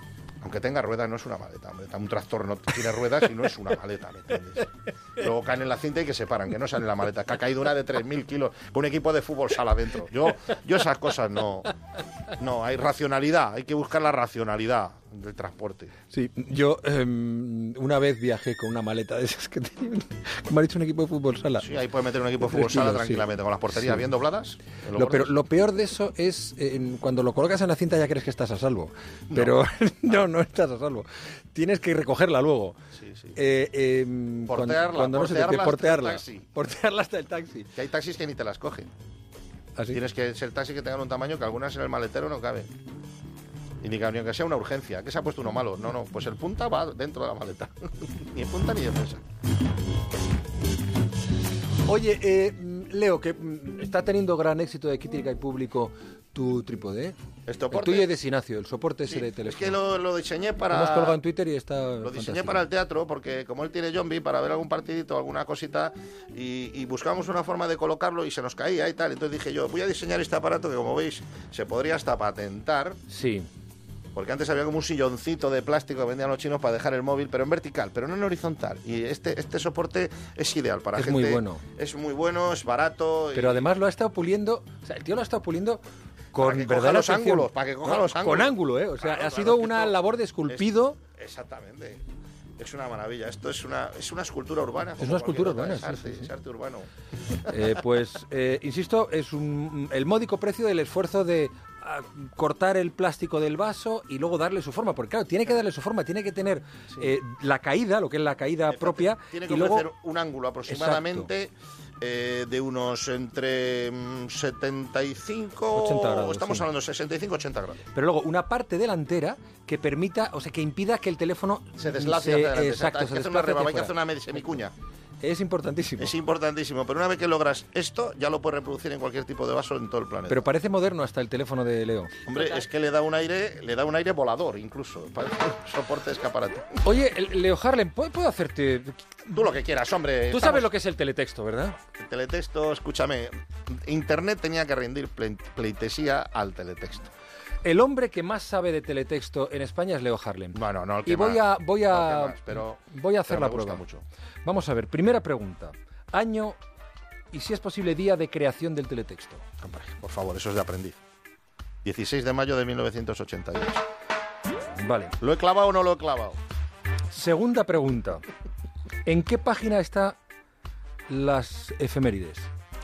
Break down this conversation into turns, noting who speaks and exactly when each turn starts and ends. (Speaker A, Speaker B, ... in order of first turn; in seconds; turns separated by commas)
Speaker A: 0.4-11.7, Speaker A: 12.4-15.9, Speaker B: 16.1-21.7, Speaker A: 21.6-25.3, Speaker B: 22.4-24.0, Speaker B: 24.9-32.8, Speaker A: 29.3-29.6, Speaker A: 32.9-33.4, Speaker B: 33.4-37.7, Speaker A: 34.5-36.5, Speaker A: 37.7-38.9, Speaker A: 39.9-42.7, Speaker A: 43.8-49.2, Speaker B: 51.9-57.1, Speaker A: 57.5-58.1, Speaker B: 57.7-59.8, Speaker A: 59.1-61.2, Speaker B: 60.7-62.6, Speaker A: 62.0-73.0, Speaker B: 73.1-73.5, Speaker A: 74.1-83.7, Speaker B: 81.0-81.6, Speaker B: 83.3-85.8, Speaker B: 86.3-91.0, Speaker A: 86.3-92.0, Speaker A: 92.6-96.9, Speaker B: 95.0-96.3, Speaker B: 97.5-109.9, Speaker A: 97.5-97.8, Speaker A: 108.7-117.8, Speaker B: 110.7-111.3, Speaker B: 115.7-116.7, Speaker B: 117.9-124.0, Speaker A: 121.7-124.7, Speaker B: 125.2-126.1, Speaker A: 126.0-130.5, Speaker B: 130.3-132.1, Speaker A: 132.2-136.8, Speaker B: 136.8-139.3, Speaker A: 139.3-140.7, Speaker B: 140.3-141.8, Speaker A: 142.0-147.1, Speaker B: 147.6-153.8, Speaker A: 150.5-154.0, Speaker B: 154.4-156.6, Speaker B: 157.3-159.4, Speaker A: 159.6-161.0, Speaker A: 161.8-163.8, Speaker B: 164.6-165.1, Speaker A: 165.2-166.4, Speaker B: 167.1-168.2, Speaker B: 169.0-170.2, Speaker B: 171.1-172.5